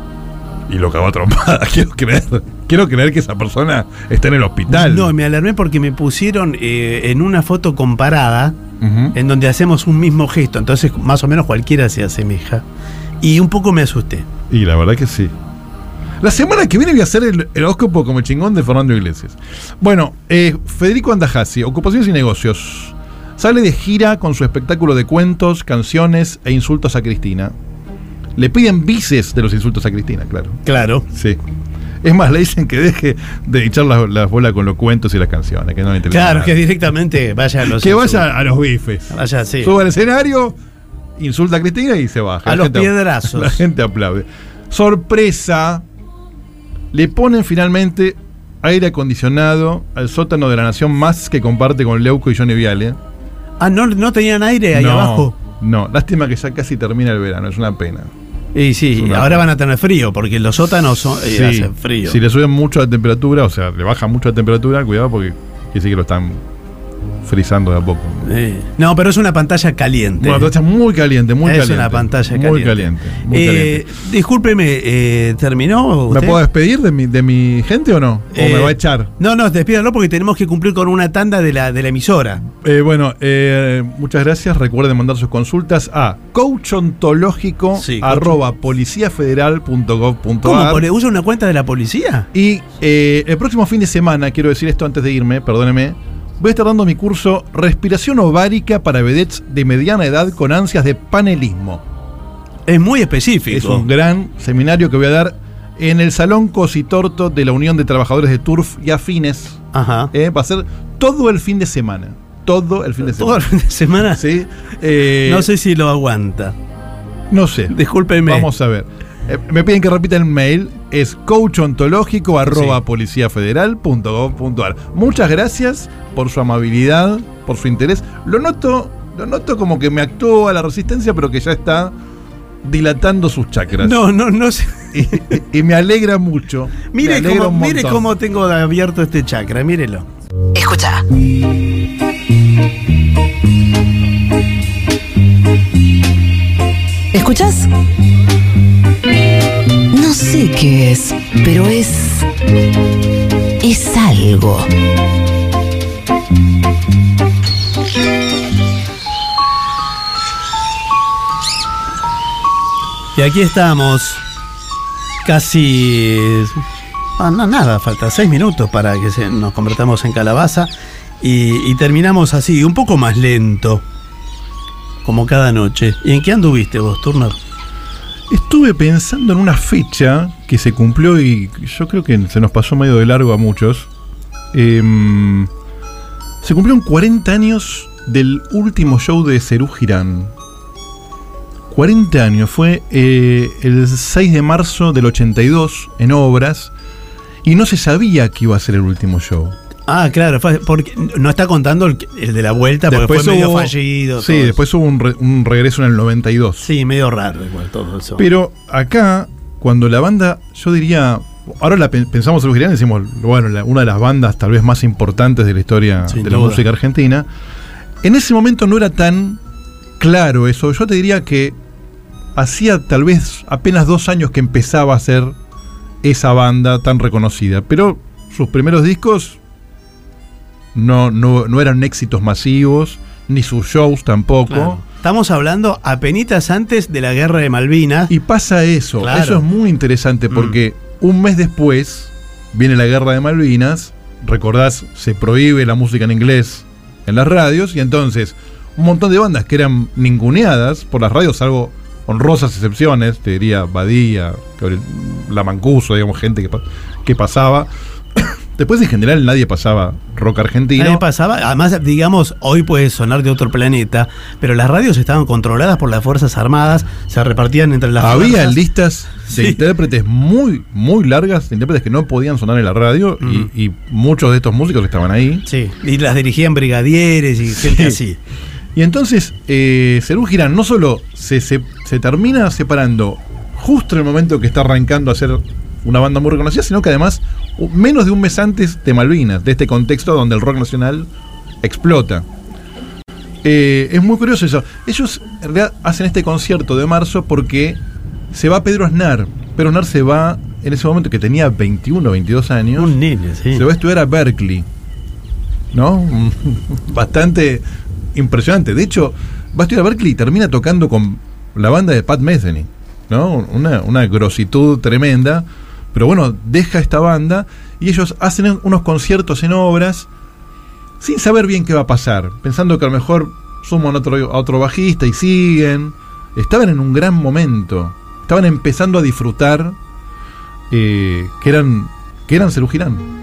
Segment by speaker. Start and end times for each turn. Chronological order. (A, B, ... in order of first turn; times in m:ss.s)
0:00.7-0:05.1 A
0:04.7-0:08.6 B
0:08.8-0:09.2 A
0:09.1-0:12.6 B
0:13.2-0:14.3 B
0:14.5-0:15.4 A
0:16.2-0:27.5 A
0:28.4-0:31.4 A
0:30.7-0:31.1 B
0:32.0-0:36.6 A
0:36.1-0:38.3 B
0:37.6-0:40.6 A
0:39.1-0:39.7 B
0:41.2-0:45.8 A
0:42.4-0:43.6 B
0:46.9-0:53.0 A
0:53.6-0:55.3 B
0:54.7-0:58.1 A
0:58.5-1:02.2 B
0:59.0-0:59.5 A
1:01.2-1:06.4 A
1:07.2-1:08.3 A
1:08.2-1:10.5 B
1:10.2-1:13.9 A
1:11.4-1:16.4 B
1:16.1-1:19.1 A
1:18.3-1:22.4 B
1:22.5-1:30.9 A
1:27.8-1:28.4 B
1:30.4-1:32.3 B
1:32.3-1:41.8 A
1:42.7-1:43.9 B
1:43.5-1:53.4 A
1:49.7-1:50.1 B
1:53.1-1:54.2 B
1:54.1-1:55.5 A
1:55.2-1:56.6 B
1:57.3-2:12.0 A
1:57.7-1:58.5 B
2:02.5-2:02.8 B
2:12.6-2:14.0 A
2:13.8-2:15.4 B
2:14.9-2:18.1 A
2:16.9-2:20.1 B
2:20.5-2:21.0 C
2:27.1-2:27.7 C
2:29.9-2:32.3 C
2:33.6-2:34.7 C
2:43.2-2:44.2 B
2:45.2-2:46.6 B
2:47.2-2:53.8 B
2:55.0-2:57.4 B
2:58.3-3:03.9 A
3:04.5-3:05.5 A
3:06.4-3:10.3 A
3:11.7-3:16.7 A
3:17.4-3:19.6 A
3:19.9-3:24.6 B
3:22.9-3:26.7 A
3:26.6-3:28.3 B
3:28.2-3:37.3 A
3:36.1-3:36.6 B
3:38.0-3:39.4 A
3:40.0-3:41.6 A
3:42.4-3:45.4 A
3:46.0-3:49.4 A
3:50.7-3:54.8 A
3:54.5-3:58.1 B
3:58.1-4:21.0 A
3:59.0-3:59.4 B
4:20.8-4:28.6 B
4:28.0-4:35.5 A
4:29.3-4:29.6 B
4:33.2-4:33.5 B
4:35.5-4:38.2 B
4:37.5-4:38.0 A
4:38.8-4:51.1 A
4:51.6-4:52.3 A
4:53.4-4:57.8 A
4:58.3-5:03.0 A
5:02.8-5:03.7 B
5:03.5-5:04.7 A
5:05.7-5:20.1 A
5:21.0-5:29.8 A
5:30.7-5:33.1 A